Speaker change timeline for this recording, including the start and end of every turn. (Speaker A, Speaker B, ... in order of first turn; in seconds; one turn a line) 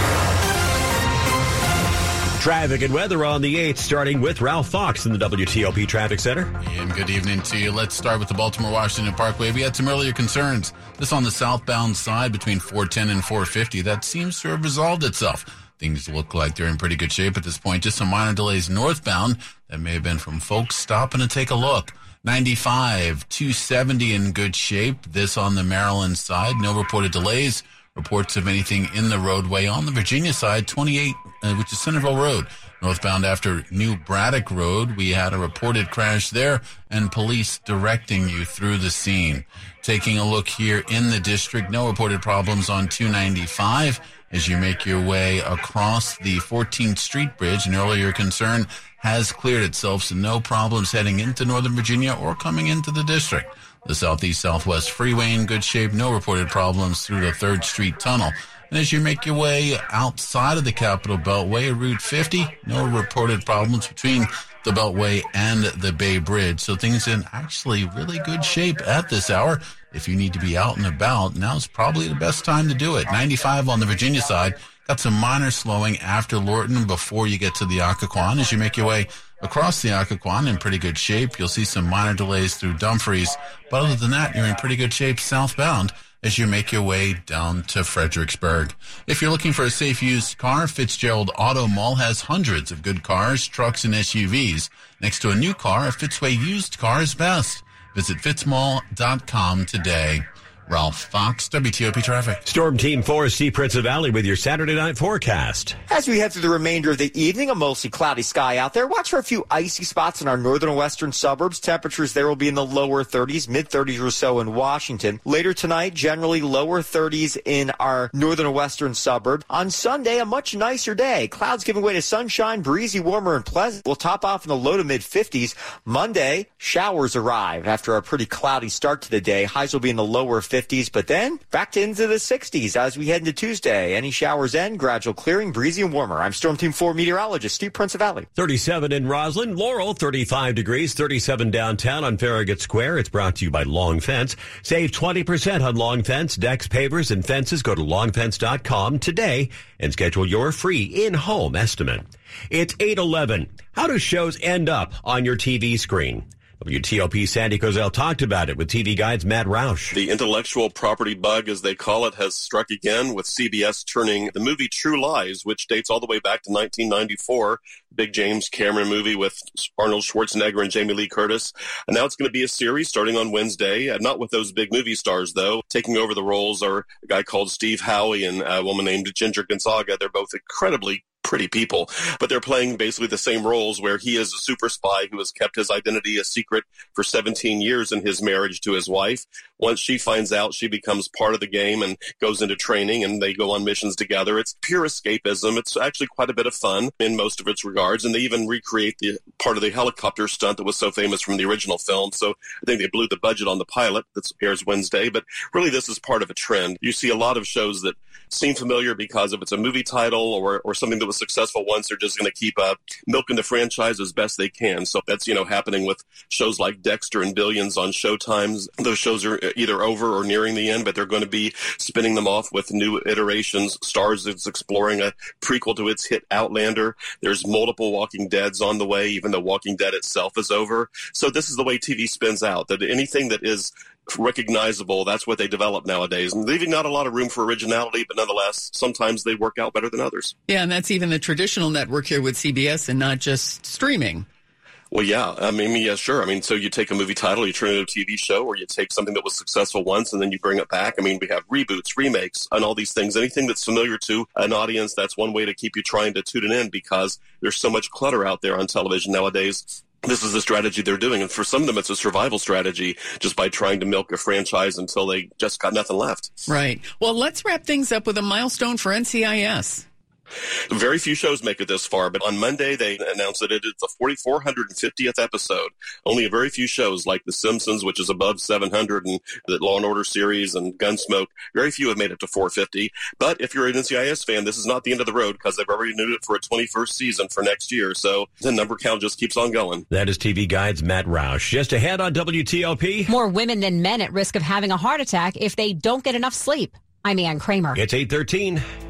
Speaker A: 2.4-6.5
Speaker B: 6.6-102.4
Speaker A: 102.5-105.8
Speaker C: 105.9-138.3
Speaker A: 138.4-159.9
Speaker D: 159.9-240.3
Speaker E: 240.5-244.2
Speaker D: 244.9-266.3
Speaker E: 266.5-269.8
Speaker D: 270.7-289.8
Speaker A: 289.9-293.1
Speaker F: 293.1-297.8
Speaker A: 297.7-298.6